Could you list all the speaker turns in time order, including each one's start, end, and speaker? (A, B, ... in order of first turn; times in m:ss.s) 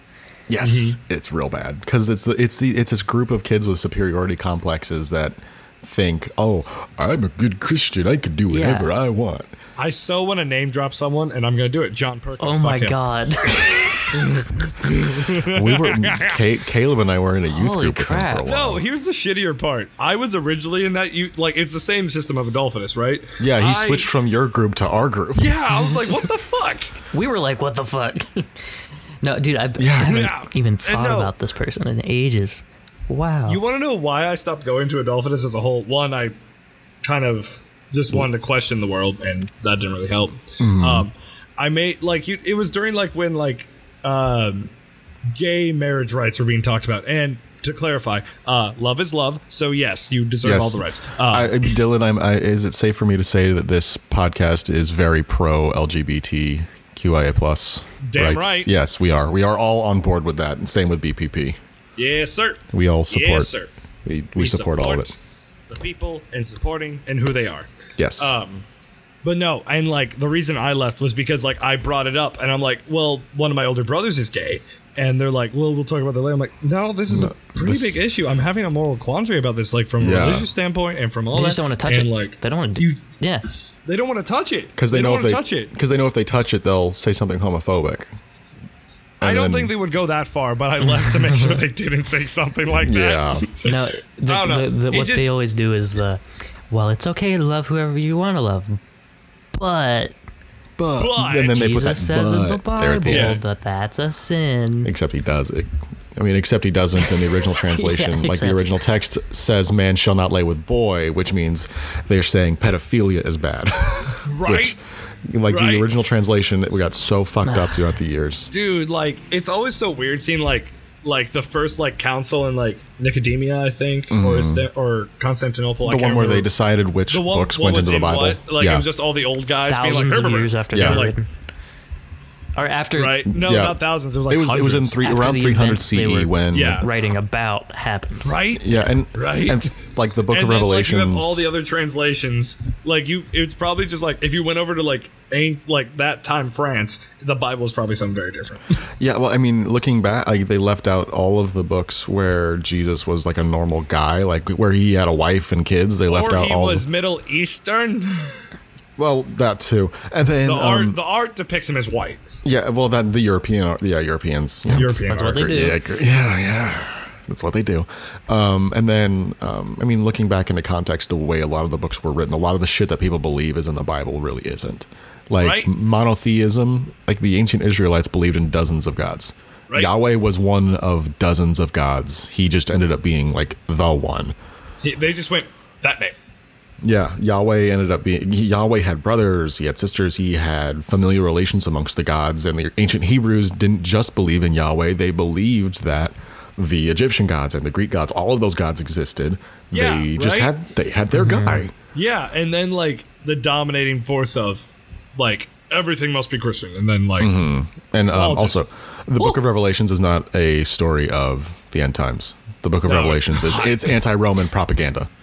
0:00.5-0:09.5 A
0:00.6-0:01.0 B
0:08.5-0:08.9 C
0:09.8-0:13.0 B
0:12.4-0:14.1 C
0:14.1-0:16.4 B
0:15.4-0:18.8 A
0:17.5-0:18.5 C
0:18.4-0:24.1 B
0:23.4-0:25.6 A
0:25.4-0:27.0 B
0:27.1-0:28.5 C
0:29.2-0:33.6 C
0:29.8-0:30.2 A
0:30.0-0:31.3 B
0:33.5-0:36.3 B
0:37.0-0:44.7 B
0:40.6-0:41.1 A
0:45.3-0:51.6 B
0:50.4-1:01.6 A
0:58.0-0:58.7 B
1:02.0-1:03.7 B
1:02.7-1:03.5 A
1:04.0-1:05.1 A
1:04.4-1:05.2 B
1:05.7-1:08.7 B
1:08.0-1:08.3 A
1:09.2-1:23.0 B
1:17.1-1:18.0 A
1:20.0-1:20.5 A
1:21.3-1:23.4 C
1:23.9-1:25.7 B
1:24.8-1:28.1 A
1:29.2-1:29.7 A
1:29.2-1:33.7 B
1:30.9-1:31.6 C
1:32.8-1:33.5 A
1:33.6-1:38.8 C
1:34.3-1:35.3 B
1:39.5-1:40.2 C
1:40.8-1:43.4 A
1:41.0-1:41.6 B
1:41.4-1:44.9 C
1:43.1-1:43.4 B
1:44.8-1:58.5 A
1:47.6-1:48.8 C
1:54.2-1:54.8 B
1:55.5-1:55.9 B
1:57.4-1:57.9 C
1:58.5-2:06.5 B
2:04.1-2:04.7 A
2:05.8-2:08.9 A
2:07.1-2:11.2 B
2:09.7-2:11.3 C
2:10.7-2:11.1 A
2:12.6-2:13.3 C
2:12.9-2:15.0 B
2:13.3-2:16.9 A
2:15.0-2:18.3 C
2:16.5-2:16.9 B
2:18.2-2:19.7 B
2:18.6-2:21.5 A
2:20.3-2:28.7 B
2:29.0-2:36.8 A
2:36.1-2:38.4 B
2:39.0-2:41.0 A
2:40.4-2:42.2 B
2:42.4-3:04.4 A
2:44.7-2:45.5 B
2:44.8-2:45.8 C
2:55.4-2:55.7 B
3:04.8-3:06.2 B
3:06.8-3:21.7 A
3:19.7-3:20.5 B
3:21.1-3:21.6 C
3:21.9-3:24.6 B
3:25.2-3:27.4 B
3:27.2-3:35.1 A
3:28.1-3:28.6 B
3:32.8-3:33.9 B